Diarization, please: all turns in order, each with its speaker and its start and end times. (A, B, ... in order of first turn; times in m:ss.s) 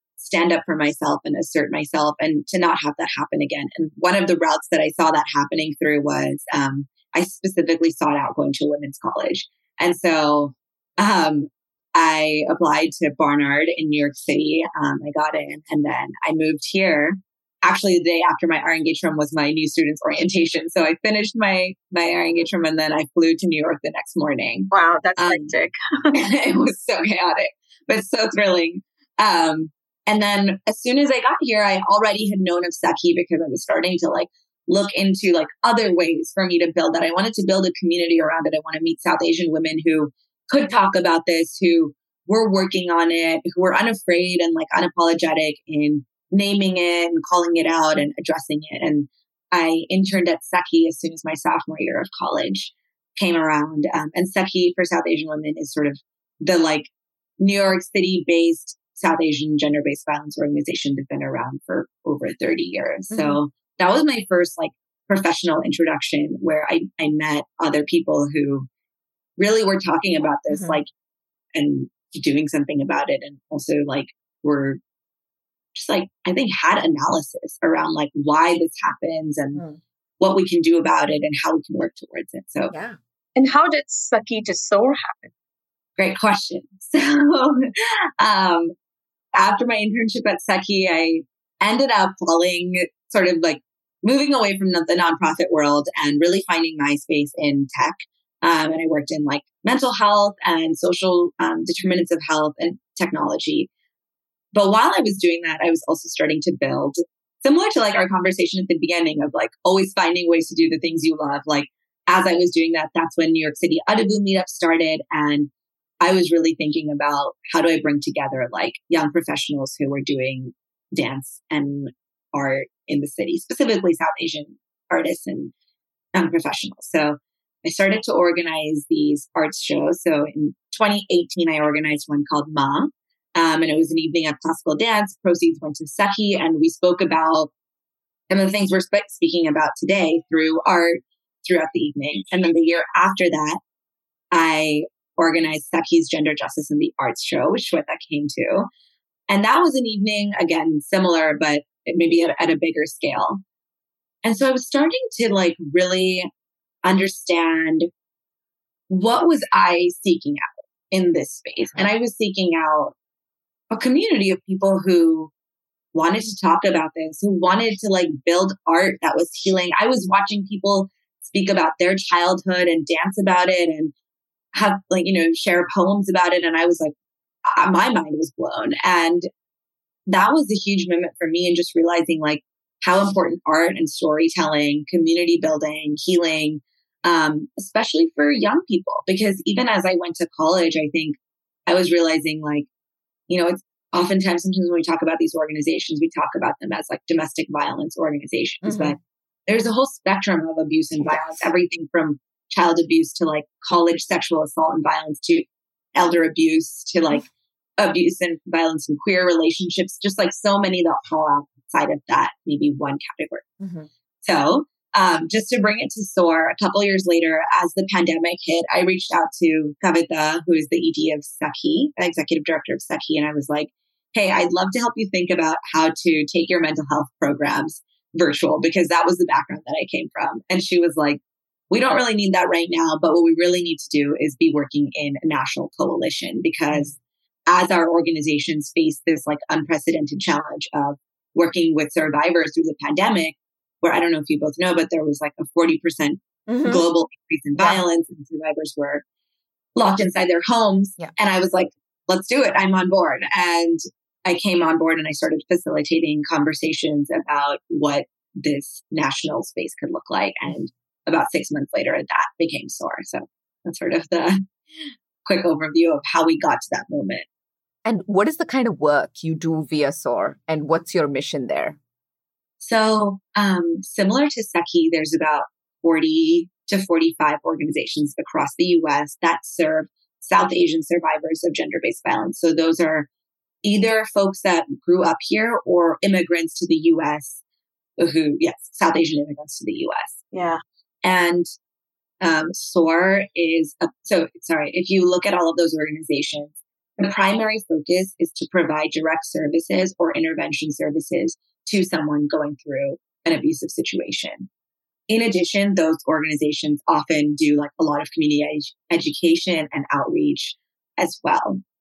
0:00.2-0:25.5 A
0:24.7-0:26.2 B
0:26.1-1:08.7 A
1:03.1-1:03.4 C
1:09.4-1:10.9 A
1:10.5-1:10.8 C
1:11.5-1:14.8 A
1:15.7-1:19.6 A
1:20.2-1:22.7 A
1:22.7-1:23.0 C
1:23.4-1:25.3 B
1:26.0-1:28.7 A
1:29.3-1:43.7 A
1:44.5-1:55.5 A
1:56.0-2:05.5 A
2:06.1-2:17.5 A
2:18.3-2:23.6 A
2:24.3-2:28.7 A
2:29.3-2:33.4 A
2:34.2-2:36.3 A
2:36.8-2:37.9 A
2:38.9-2:42.9 A
2:43.7-2:45.3 A
2:45.9-2:53.9 A
2:54.5-2:56.9 A
2:57.5-2:59.2 A
3:00.1-3:12.7 A
3:13.3-3:27.2 A
3:18.6-3:19.0 C
3:21.0-3:21.5 C
3:27.8-3:33.5 A
3:33.6-3:33.9 C
3:34.2-3:57.0 A
3:57.5-4:09.0 A
4:06.5-4:06.8 C
4:09.8-4:24.4 A
4:25.2-4:27.2 A
4:27.8-4:31.8 C
4:32.6-4:43.1 A
4:43.6-4:47.4 A
4:48.0-4:50.2 A
4:50.3-4:50.6 B
4:51.0-4:51.5 A
4:52.2-5:04.5 A
5:05.1-5:11.6 A